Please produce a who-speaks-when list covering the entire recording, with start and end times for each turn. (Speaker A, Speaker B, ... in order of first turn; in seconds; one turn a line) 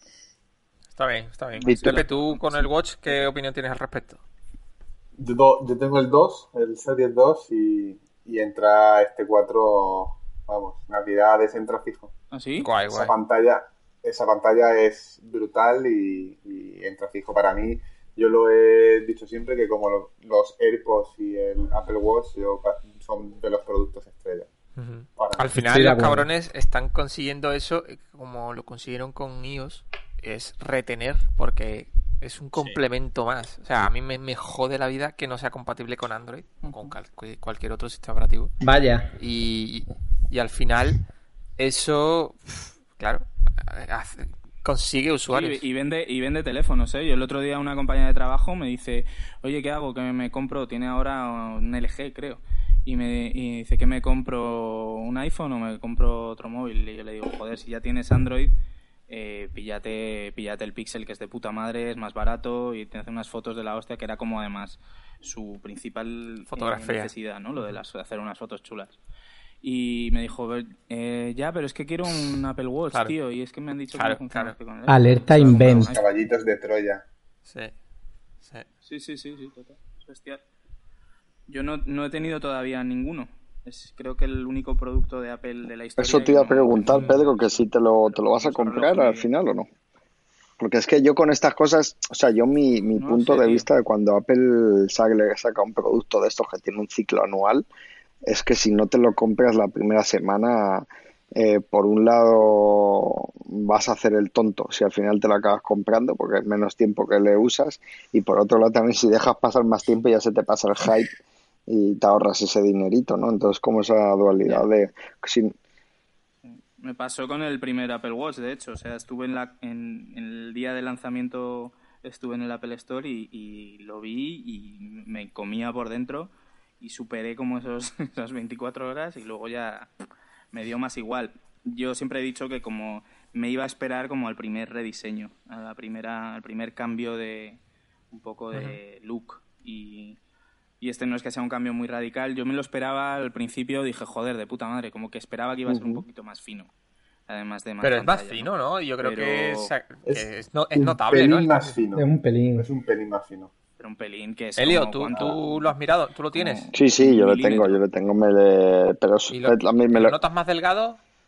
Speaker A: 0.9-4.2
Speaker B: 1.5-2.7
Speaker C: 1.6-2.0
Speaker D: 5.2-12.1
Speaker B: 12.3-12.7
Speaker A: 12.6-13.1
Speaker D: 12.9-24.5
Speaker A: 24.8-38.5
Speaker D: 25.1-25.6
Speaker E: 25.6-26.3
Speaker B: 36.6-36.9
Speaker E: 38.6-39.1
Speaker A: 39.2-41.0
Speaker A: 41.6-45.6
Speaker B: 45.3-58.5
Speaker B: 59.1-68.9
Speaker A: 66.5-67.1
Speaker B: 69.6-76.0
Speaker A: 74.0-74.5
Speaker E: 74.9-75.9
Speaker D: 75.5-77.0
Speaker A: 77.5-77.7
Speaker B: 78.8-80.4
Speaker B: 81.5-89.3
Speaker C: 86.0-89.7
Speaker C: 90.6-97.7
Speaker B: 93.0-93.7
Speaker C: 98.2-115.5
Speaker B: 116.4-129.9
Speaker B: 130.5-137.6
Speaker B: 138.1-140.2
Speaker A: 138.5-138.8
Speaker B: 140.8-146.7
Speaker C: 145.7-146.0
Speaker B: 147.3-148.5
Speaker A: 147.8-151.8
Speaker B: 149.0-149.7
Speaker D: 150.1-153.5
Speaker E: 151.9-152.7
Speaker B: 153.8-155.7
Speaker A: 154.6-156.6
Speaker B: 156.3-157.8
Speaker C: 156.7-160.1
Speaker A: 159.3-161.0